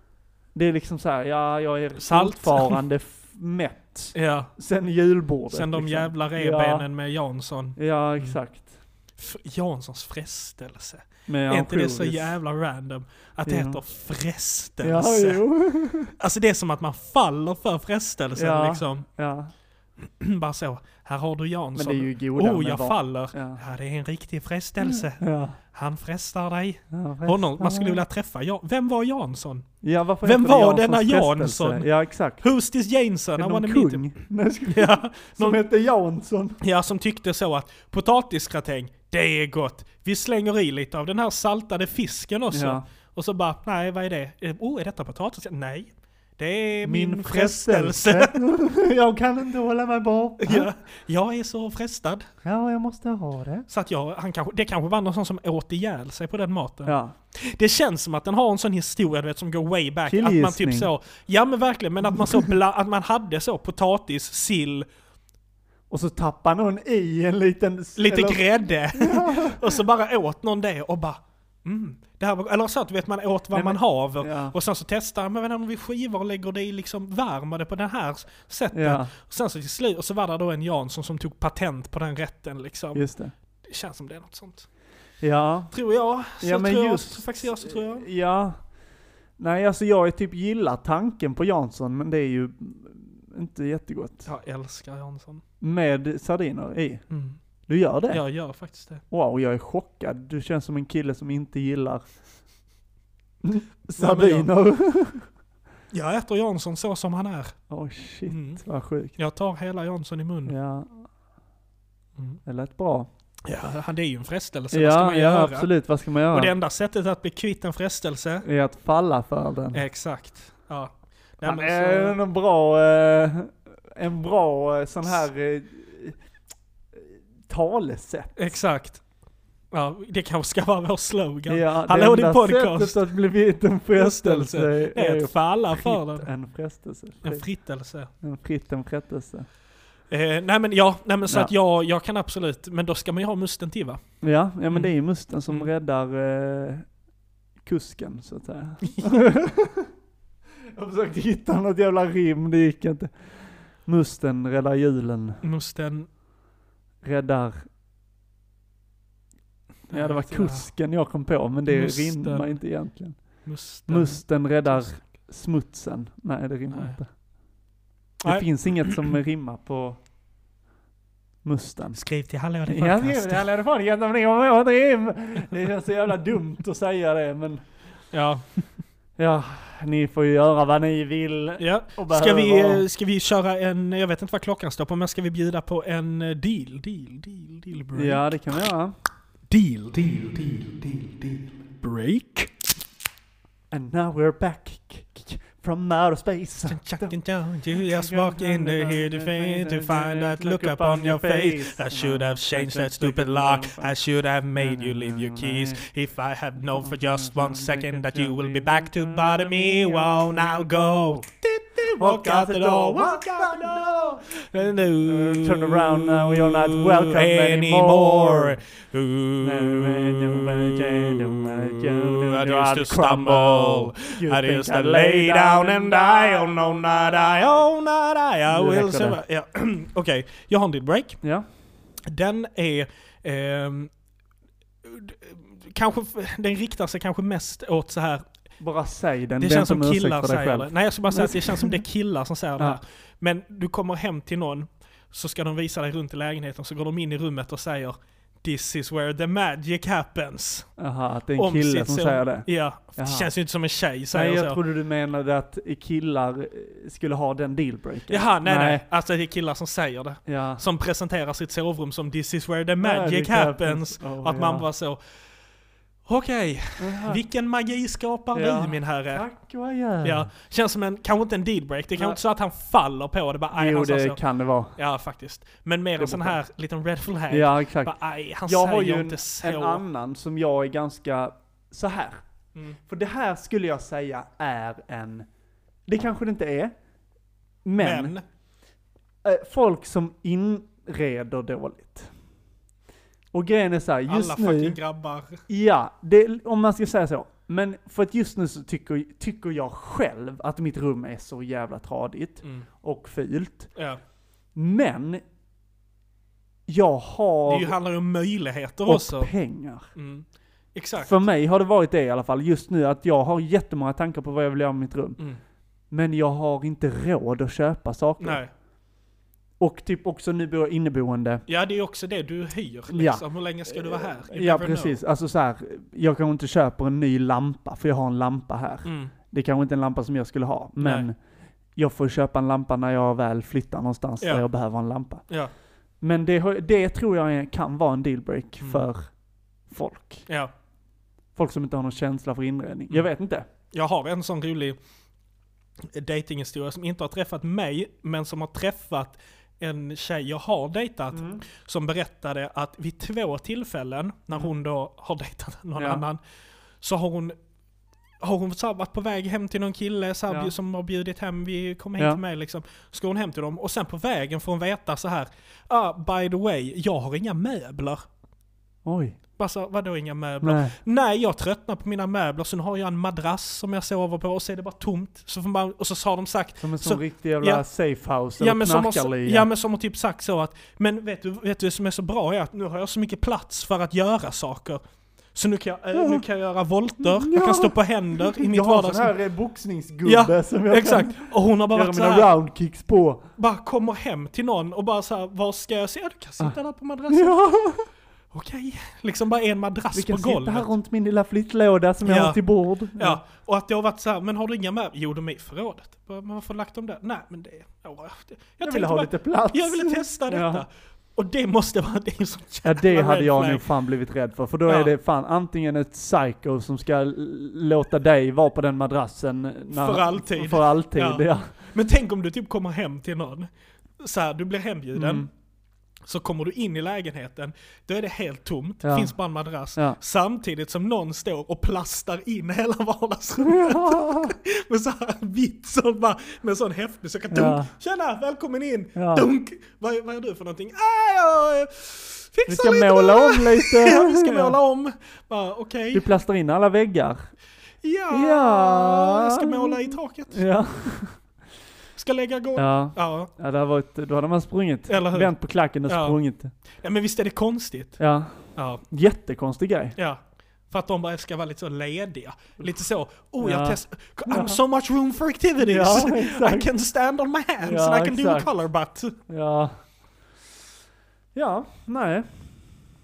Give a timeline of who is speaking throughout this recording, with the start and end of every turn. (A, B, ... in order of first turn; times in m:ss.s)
0:00.6-0:06.9 A
0:02.0-0:02.8 B
0:04.1-0:04.5 B
0:05.5-0:08.4 B
0:07.8-0:08.8 A
0:09.2-0:15.4 B
0:11.3-0:12.4 A
0:13.5-0:13.8 A
0:14.8-0:16.1 A
0:16.2-0:19.0 B
0:18.4-0:19.5 A
0:20.0-0:29.7 B
0:21.8-0:23.6 A
0:24.8-0:25.6 A
0:26.9-0:28.0 A
0:29.8-0:32.4 A
0:30.2-0:31.9 B
0:32.4-0:34.1 B
0:33.4-0:36.6 A
0:34.7-0:35.6 B
0:36.6-0:48.4 B
0:42.5-0:42.8 A
0:46.8-0:50.7 A
0:50.4-0:52.3 B
0:52.4-0:53.7 A
0:53.7-1:04.9 B
0:56.9-0:57.2 A
1:00.1-1:00.9 A
1:02.1-1:02.5 A
1:05.9-1:09.8 A
1:08.0-1:23.1 B
1:13.5-1:14.6 A
1:18.7-1:19.1 A
1:22.9-1:23.3 A
1:23.6-1:24.7 B
1:25.2-1:25.7 A
1:25.7-1:28.1 B
1:26.3-1:28.6 A
1:29.4-1:34.3 A
1:34.3-1:35.4 B
1:35.6-1:37.0 A
1:37.1-1:37.4 B
1:37.7-1:38.2 A
1:38.1-1:39.0 B
1:39.1-1:42.0 A
1:43.4-1:45.3 A
1:44.0-1:44.5 B
1:45.9-1:47.6 B
1:47.7-1:49.2 A
1:48.3-1:48.6 B
1:49.2-1:50.5 B
1:50.5-1:51.0 A
1:52.5-1:53.1 A
1:53.4-1:55.7 B
1:54.7-1:56.5 A
1:56.3-1:58.4 B
1:58.4-1:59.8 A
1:59.7-2:02.2 B
2:01.4-2:06.2 A
2:07.0-2:08.6 A
2:08.4-2:09.0 B
2:09.7-2:13.0 B
2:11.5-2:17.4 A
2:14.0-2:16.3 B
2:17.2-2:18.1 B
2:18.2-2:19.5 A
2:20.1-2:24.0 B
2:21.3-2:21.5 A
2:24.2-2:26.9 A
2:27.6-2:29.9 A
2:28.8-2:29.1 B
2:30.7-2:33.3 A
2:33.8-2:35.4 A
2:35.4-2:36.1 B
2:37.0-2:37.7 A
2:39.9-2:40.7 B
2:39.9-2:43.2 A
2:41.7-2:42.6 B
2:43.4-2:44.2 B
2:43.9-2:47.1 A
2:48.2-2:48.5 B
2:48.2-2:50.0 A
2:51.4-2:52.0 A
2:52.0-2:53.5 B
2:52.7-2:57.6 A
2:58.1-2:58.6 B
2:59.2-3:02.8 A
3:01.6-3:08.3 B
3:07.9-3:08.9 A
3:09.5-3:12.5 B
3:13.7-3:17.2 A
3:16.7-3:51.2 B
3:17.7-3:23.9 A
3:24.6-3:25.8 A
3:26.6-3:31.2 A
3:32.0-3:38.6 A
3:39.4-3:47.4 A
3:48.5-3:49.2 A
3:52.1-3:53.9 B
3:54.8-3:58.2 B
3:58.6-4:01.8 A
3:59.4-4:10.7 B
4:10.8-4:13.3 A
4:11.4-4:14.6 B
4:14.1-4:18.8 A
4:18.1-4:25.0 B
4:20.3-4:20.6 A
4:22.8-4:24.6 A
4:26.1-4:29.2 B
4:26.8-4:27.2 A
4:28.3-4:30.3 A
4:30.0-4:34.2 B
4:33.5-4:34.8 A
4:34.8-4:39.8 B
4:36.0-4:36.4 A
4:37.3-4:37.9 A
4:38.5-4:42.2 A
4:42.9-4:45.3 A
4:45.9-4:46.7 A
4:47.6-4:48.1 A
4:47.8-4:48.2 B
4:49.2-4:52.1 A
4:53.3-4:54.8 A
4:54.1-4:55.4 B
4:55.5-5:03.7 A
5:03.8-5:04.0 B
5:04.6-5:05.2 A
5:06.7-5:07.8 A
5:07.5-5:09.3 B
5:08.9-5:09.9 A
5:10.0-5:11.1 B
5:11.0-5:15.2 A
5:15.9-5:18.4 A
5:18.2-5:18.5 B
5:19.6-5:21.4 A
5:21.5-5:25.0 B
5:22.9-5:31.2 A
5:28.8-5:29.1 B
5:30.8-5:31.1 B
5:31.8-5:35.2 A
5:36.0-5:39.1 A
5:38.6-5:38.9 B
5:39.7-5:40.2 A
5:41.4-5:43.5 A
5:43.7-5:44.8 B
5:45.9-5:56.2 B
5:51.1-5:51.4 A
5:55.8-5:56.0 A
5:56.8-5:57.4 B
5:58.2-6:08.0 B
6:08.8-6:09.2 A
6:09.4-6:17.6 B
6:10.4-6:10.8 A
6:16.6-6:19.5 A
6:18.4-6:24.8 B
6:25.3-6:29.2 B
6:26.0-6:26.2 A
6:27.0-6:33.2 A
6:30.0-6:32.3 B
6:33.4-6:37.4 B
6:37.1-6:37.9 A
6:38.3-6:40.7 B
6:39.9-6:43.2 A
6:42.0-6:42.4 B
6:43.0-6:53.6 B
6:48.6-6:50.6 A
6:52.6-7:01.5 A
6:54.7-6:54.9 B
6:59.7-7:05.3 B
7:04.9-7:05.3 A
7:06.1-7:26.0 B
7:08.8-7:09.1 A
7:13.4-7:14.4 A
7:17.3-7:17.7 A
7:19.0-7:19.3 A
7:22.5-7:24.6 A
7:25.9-7:27.2 A
7:27.8-7:30.4 B
7:28.1-7:31.2 A
7:32.0-7:33.3 B
7:32.6-7:36.5 A
7:34.9-7:35.3 B
7:35.9-7:36.2 B
7:36.8-7:38.0 B
7:38.0-7:40.0 A
7:38.6-7:38.8 B
7:40.0-7:49.2 B
7:43.4-7:44.6 A
7:45.6-7:46.7 A
7:47.6-7:48.5 A
7:49.3-7:49.8 A
7:51.3-7:52.5 A